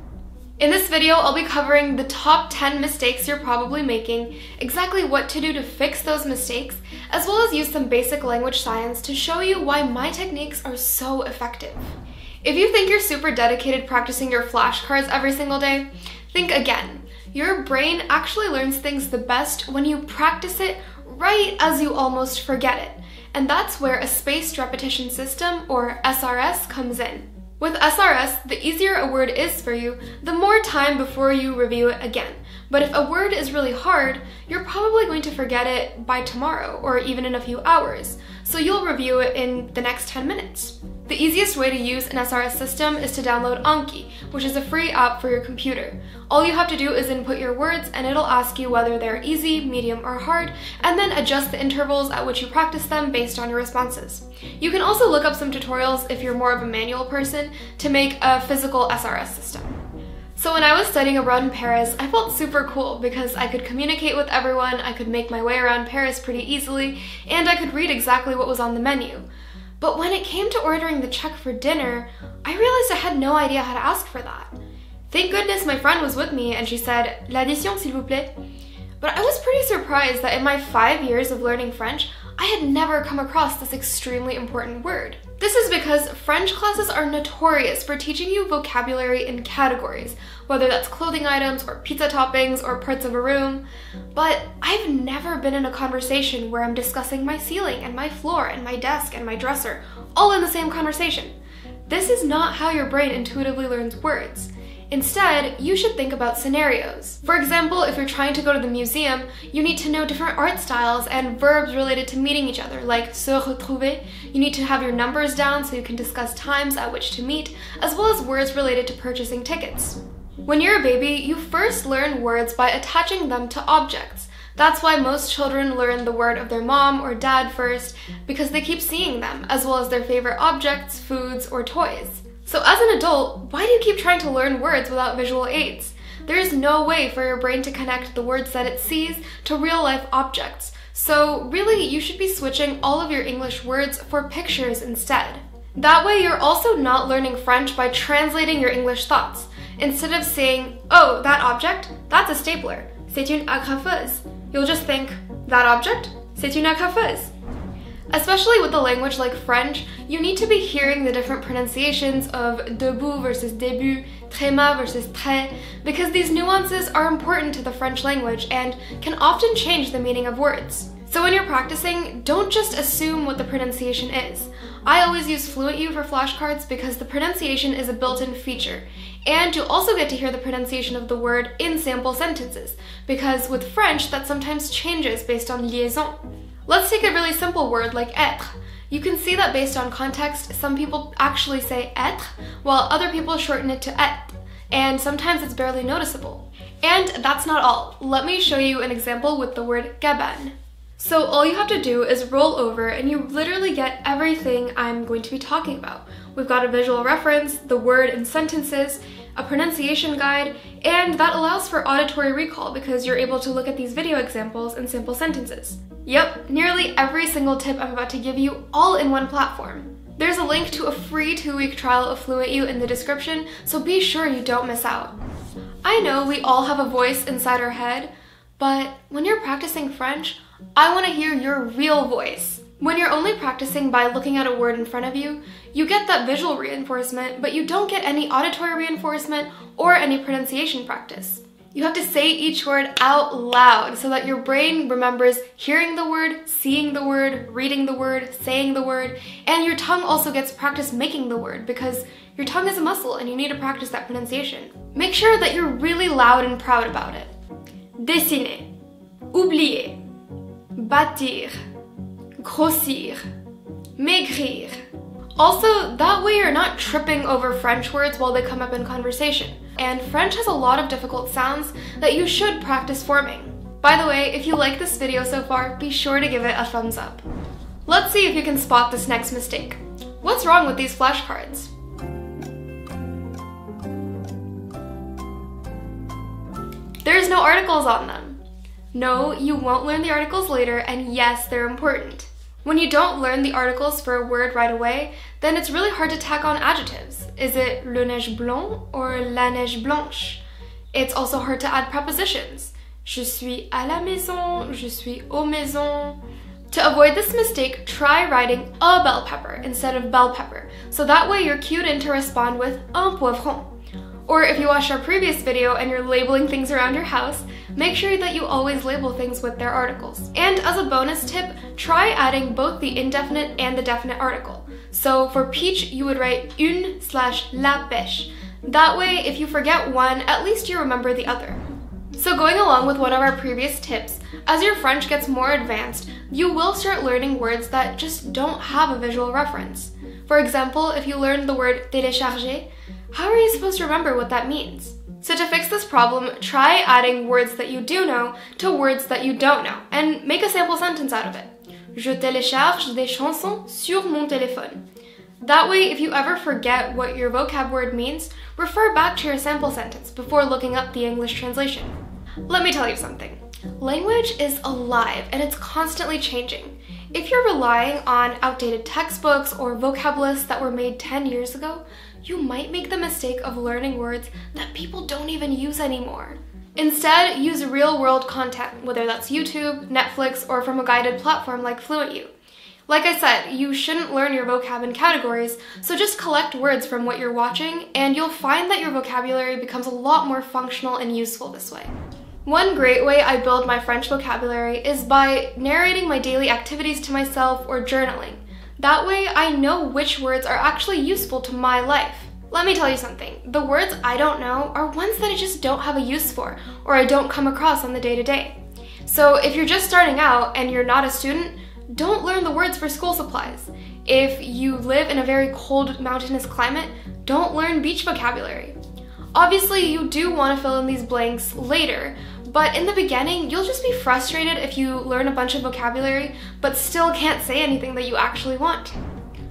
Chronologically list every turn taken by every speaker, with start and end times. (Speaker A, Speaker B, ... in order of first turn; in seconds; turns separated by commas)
Speaker A: 0.6-59.8, Speaker A: 60.4-69.3, Speaker A: 69.8-74.5, Speaker A: 75.1-78.3, Speaker A: 79.0-93.6, Speaker A: 94.1-101.3, Speaker A: 101.9-157.3, Speaker A: 158.1-225.2, Speaker A: 225.8-257.3, Speaker A: 258.0-258.7, Speaker A: 259.3-260.0, Speaker A: 260.8-261.6, Speaker A: 262.4-263.2, Speaker A: 264.0-264.8, Speaker A: 265.4-277.2, Speaker A: 277.9-281.7, Speaker A: 287.0-288.4, Speaker A: 288.9-300.4, Speaker A: 300.9-306.2, Speaker A: 306.7-313.7, Speaker A: 314.3-331.6, Speaker A: 332.1-354.8, Speaker A: 355.4-382.3, Speaker A: 382.9-391.9, Speaker A: 392.4-418.8, Speaker A: 419.3-429.0